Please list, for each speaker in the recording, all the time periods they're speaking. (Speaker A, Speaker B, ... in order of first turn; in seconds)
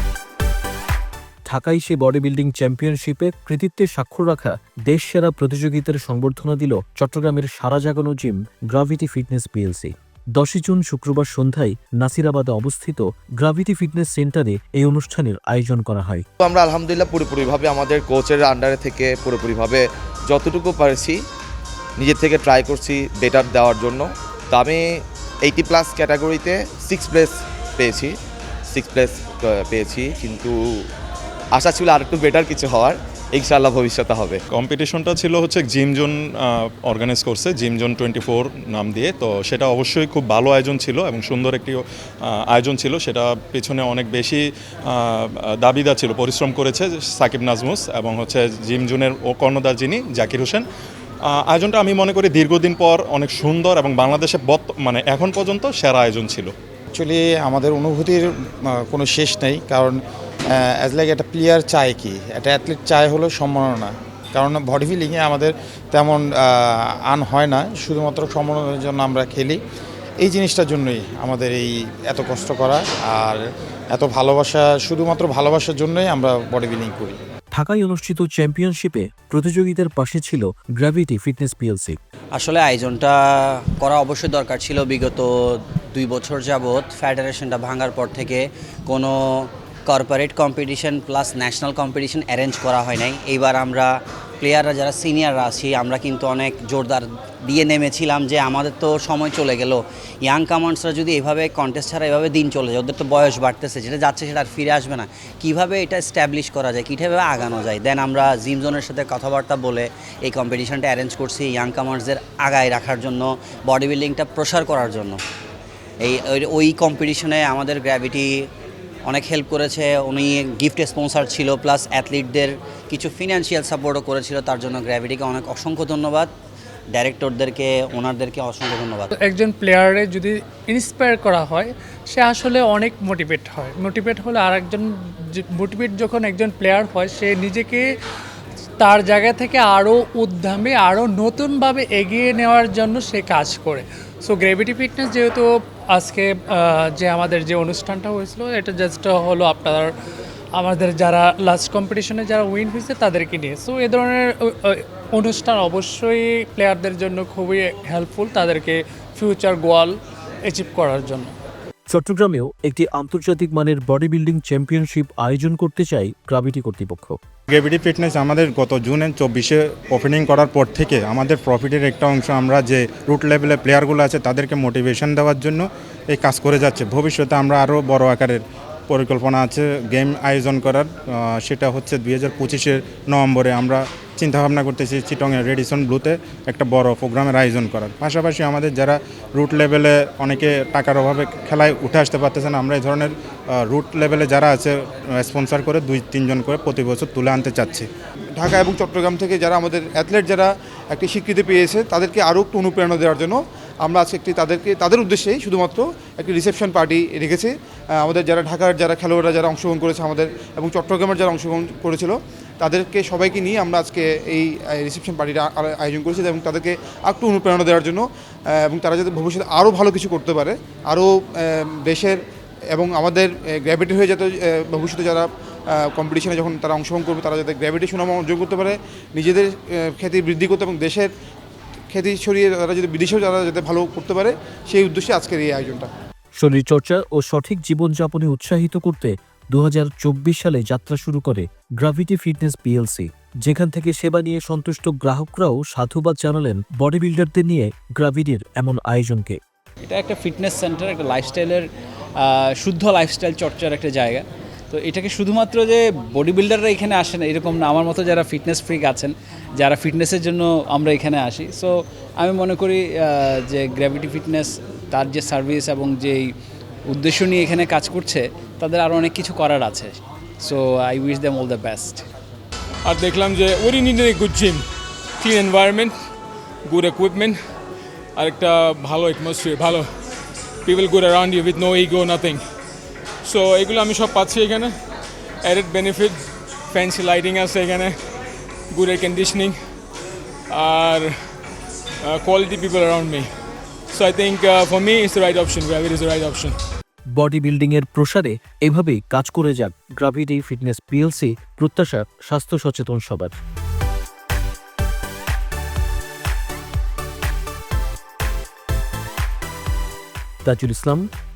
Speaker A: 1.5-16.2, 77.5-82.0, 161.9-167.2, 236.4-249.4, 297.1-303.4, 310.4-311.1
Speaker B: 16.4-21.2, 22.0-28.2, 28.7-30.6, 31.5-34.4
Speaker C: 34.5-50.6, 51.3-56.5
Speaker D: 56.9-60.0, 60.6-69.6, 70.2-73.4, 73.9-77.2
Speaker E: 82.3-115.2, 116.0-118.5, 119.1-126.3, 126.9-129.1
Speaker F: 129.2-137.9, 138.8-149.9, 150.6-161.3
Speaker G: 167.5-197.9
Speaker H: 198.4-222.2, 222.7-231.1, 231.9-235.9
Speaker I: 249.8-251.7, 252.2-266.4, 266.9-272.1
Speaker J: 272.9-274.7, 275.2-276.0, 276.7-277.4, 278.2-279.9, 280.6-282.4, 283.2-284.7, 285.5-288.0, 288.7-289.6, 290.5-291.2, 292.1-293.3, 293.9-296.6